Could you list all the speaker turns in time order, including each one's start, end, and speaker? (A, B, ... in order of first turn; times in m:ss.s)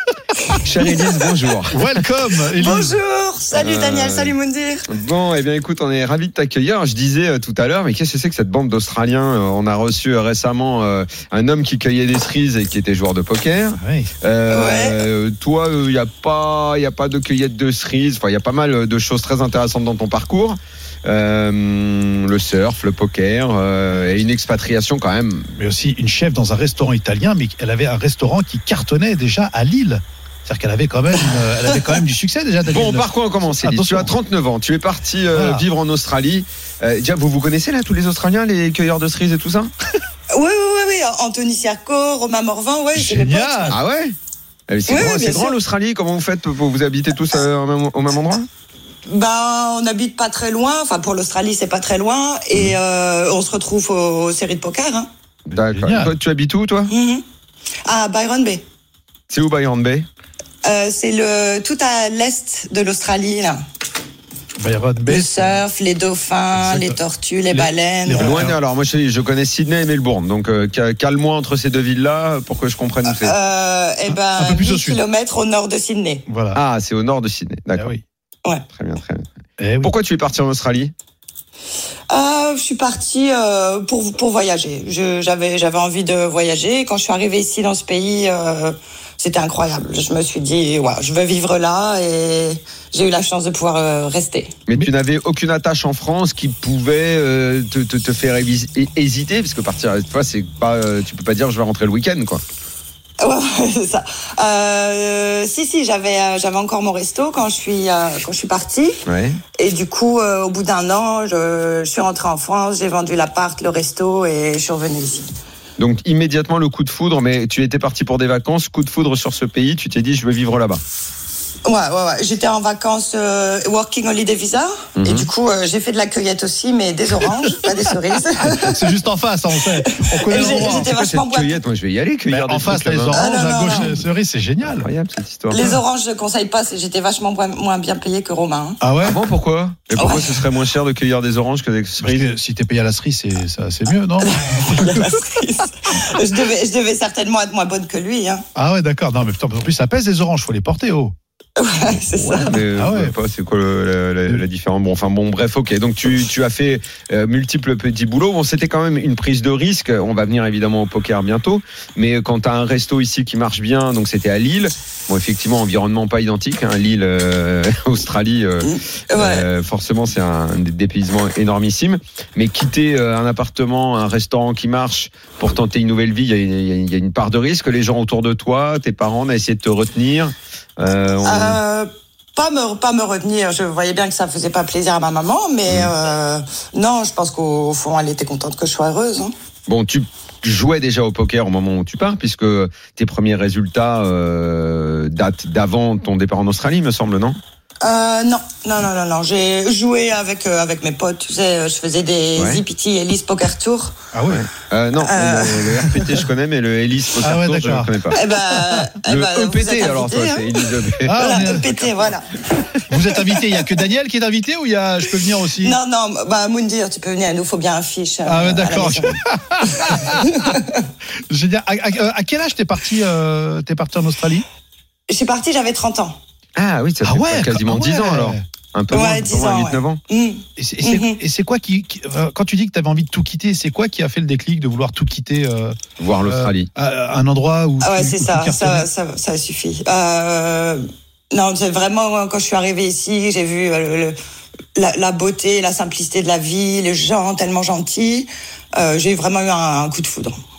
0:00.6-0:02.0 A
0:01.7-0:03.0 B
0:02.6-0:04.9 C
0:03.5-0:04.3 A
0:04.9-0:25.5 A
0:13.8-0:14.1 B
0:14.5-0:15.0 C
0:25.6-0:34.1 B
0:32.7-0:39.7 A
0:35.3-0:35.6 B
0:40.3-0:43.8 C
0:43.0-0:43.8 B
0:43.7-0:44.2 A
0:44.7-0:48.5 A
0:44.9-0:45.6 C
0:49.1-0:55.1 C
0:55.5-0:56.9 A
0:55.6-0:56.1 B
0:56.9-0:57.2 C
0:57.8-0:58.6 C
0:59.3-1:00.1 A
1:00.6-1:03.6 C
1:04.6-1:05.6 B
1:05.1-1:08.4 C
1:06.6-1:07.0 B
1:07.5-1:08.6 B
1:08.2-1:13.4 A
1:13.1-1:16.2 C
1:14.1-1:15.0 B
1:16.3-1:16.6 B
1:16.5-1:17.9 A
1:17.8-1:18.0 B
1:18.7-1:19.3 A
1:19.6-1:19.9 B
1:19.8-1:20.9 A
1:22.1-1:34.6 C
1:34.7-1:42.4 A
1:43.2-1:49.0 C
1:49.1-1:49.4 A
1:49.6-1:55.3 C
1:55.8-2:00.8 A
2:01.7-2:08.8 C
2:05.0-2:05.3 A
2:08.4-2:10.9 B
2:09.9-2:11.6 C
2:10.3-2:14.0 A
2:12.3-2:14.9 B
2:13.1-2:13.9 C
2:14.6-2:15.8 A
2:15.5-2:18.8 C
2:18.8-2:19.2 B
2:19.0-2:22.4 A
2:20.0-2:20.3 C
2:22.0-2:25.2 B
2:24.2-2:28.4 C
2:28.6-2:31.1 B
2:31.6-2:32.6 C
2:32.1-3:01.6 A
2:32.7-2:33.1 B
2:48.6-2:49.5 C
3:01.2-3:09.3 C
3:05.7-3:05.9 A
3:09.7-3:17.4 A
3:17.8-3:24.0 C
3:22.4-3:22.6 A
3:24.1-3:24.4 B
3:24.3-3:28.3 A
3:25.0-3:26.2 C
3:27.2-3:27.9 B
3:28.1-3:32.4 C
3:29.0-3:31.9 A
3:31.0-3:31.7 B
3:32.9-3:35.8 B
3:35.6-3:39.2 C
3:38.3-3:40.6 B
3:39.7-3:40.9 C
3:41.3-3:44.5 B
3:45.1-3:46.2 C
3:46.6-3:50.0 A
3:47.0-3:48.4 B
3:48.9-3:51.2 C
3:50.6-3:58.9 B
3:56.0-3:56.7 A
3:57.8-4:04.2 C
4:04.8-4:10.4 C